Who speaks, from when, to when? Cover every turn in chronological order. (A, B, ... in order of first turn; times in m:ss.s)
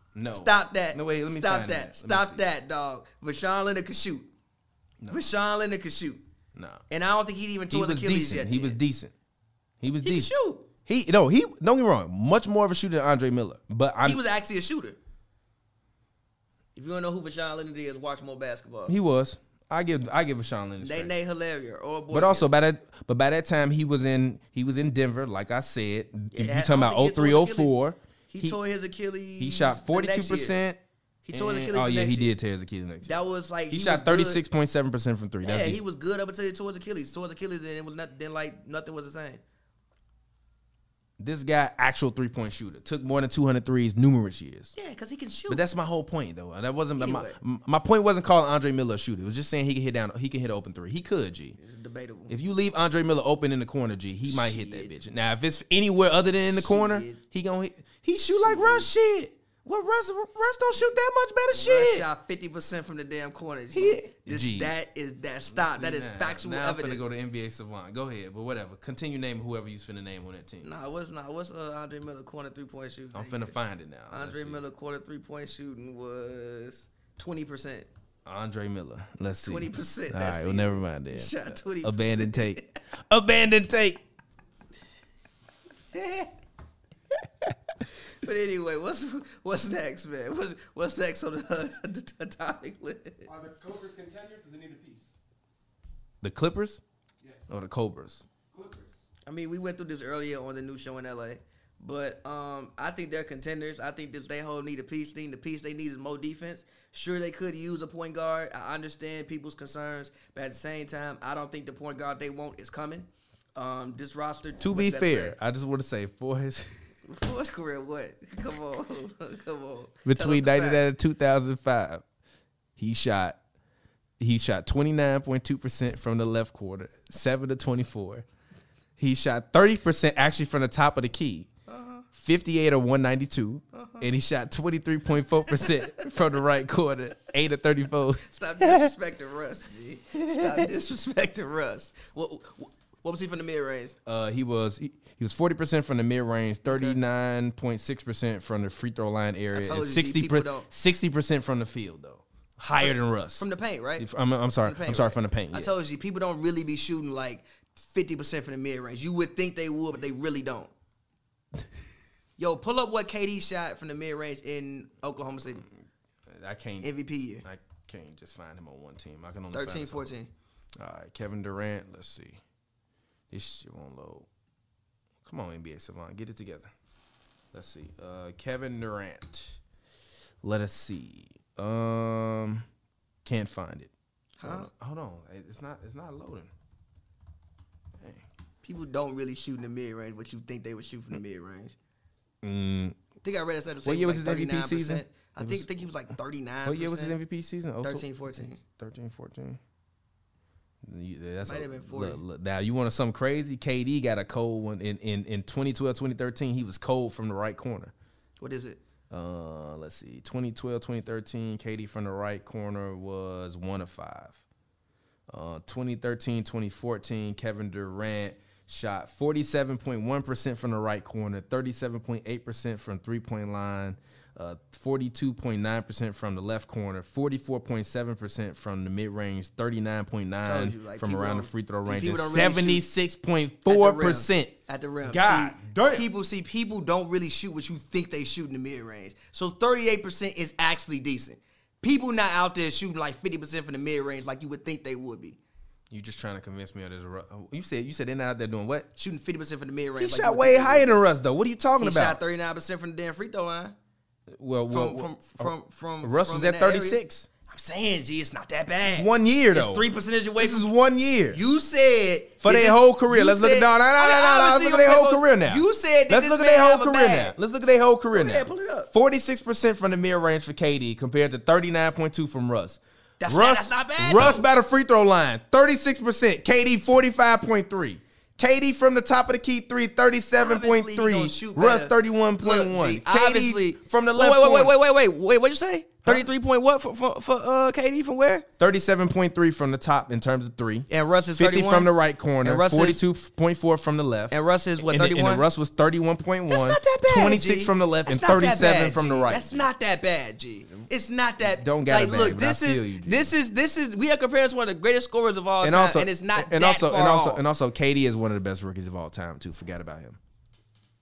0:00.1-0:02.4 A
0:00.3-0:04.3 B
0:05.0-0:05.2 A
0:05.1-0:06.2 B
0:06.5-0:06.8 A
0:06.9-0:08.8 B
0:07.7-0:09.1 A
0:09.8-0:10.3 A
0:10.0-0:10.7 B
0:10.8-0:14.2 A
0:14.0-0:15.0 B
0:16.7-0:18.9 B
0:18.9-0:21.1 A
0:20.8-0:22.5 B
0:22.1-0:28.6 A
0:26.3-0:27.8 B
0:28.3-0:30.6 B
0:29.4-0:30.8 A
0:31.2-0:32.3 B
0:31.3-0:33.1 A
0:33.0-0:34.4 B
0:33.7-0:35.8 A
0:35.4-0:39.4 B
0:41.2-0:44.7 A
0:44.8-0:45.6 B
0:45.5-0:51.6 A
0:47.0-0:47.4 B
0:51.6-0:52.3 B
0:52.3-1:02.0 A
0:54.2-0:54.9 B
0:56.4-0:57.2 B
0:58.3-0:58.9 B
1:01.5-1:07.1 B
1:03.7-1:04.7 A
1:05.5-1:10.7 A
1:10.6-1:13.5 B
1:13.1-1:14.6 A
1:14.1-1:17.9 B
1:18.2-1:24.0 A
1:19.4-1:22.8 B
1:25.9-1:26.3 B
1:28.2-1:33.3 B
1:33.2-1:35.2 C
1:36.2-1:36.8 A
1:37.2-1:37.5 C
1:37.5-1:38.2 A
1:38.5-1:39.0 C
1:39.2-1:55.3 B
1:54.6-1:56.8 A
1:57.1-2:00.9 B
2:00.0-2:02.0 A
2:02.8-2:03.4 A
2:04.2-2:08.2 A
2:09.0-2:11.5 A
2:11.7-2:12.0 B
2:12.1-2:18.9 A
2:13.7-2:14.0 B
2:15.6-2:16.1 B
2:18.2-2:23.9 B
2:20.3-2:20.6 A
2:24.0-2:33.5 A
2:26.6-2:27.0 B
2:29.5-2:30.7 B
2:32.8-2:34.1 B
2:34.0-2:35.7 A
2:34.6-2:40.7 B
2:42.4-2:45.6 B
2:46.3-2:46.9 A
2:46.8-2:47.4 B
2:47.4-2:50.0 A
2:49.5-2:50.3 B
2:50.8-2:52.4 A
2:53.3-2:54.3 A
2:55.2-2:56.7 A
2:57.5-2:59.6 A
3:00.4-3:02.6 A
3:03.2-3:03.9 A
3:04.4-3:04.7 B
3:04.4-3:06.5 A
3:08.0-3:08.2 A
3:08.6-3:11.7 B
3:12.4-3:13.0 A
3:13.2-3:17.2 B
3:13.8-3:15.7 A
3:16.6-3:19.6 A
3:17.8-3:18.6 B
3:20.8-3:27.9 A
3:21.4-3:22.2 B
3:28.4-3:28.8 B
3:29.1-3:34.4 A
3:35.3-3:56.1 A
3:50.4-3:52.8 B
3:53.7-4:05.4 B
4:05.9-4:08.9 A
4:09.0-4:11.0 B
4:10.0-4:12.2 A
4:11.8-4:13.7 B
4:14.3-4:17.3 A
4:14.7-4:20.7 B
4:18.8-4:19.8 A
4:20.4-4:21.4 A
4:21.3-4:27.3 B
4:22.4-4:44.7 A
4:28.1-4:28.9 B
4:33.2-4:34.5 B
4:40.4-4:48.5 B
4:48.6-4:59.7 A
4:50.9-4:53.0 B
4:54.3-4:55.4 B
4:56.5-5:07.4 B
5:01.4-5:03.3 A
5:05.6-5:10.2 A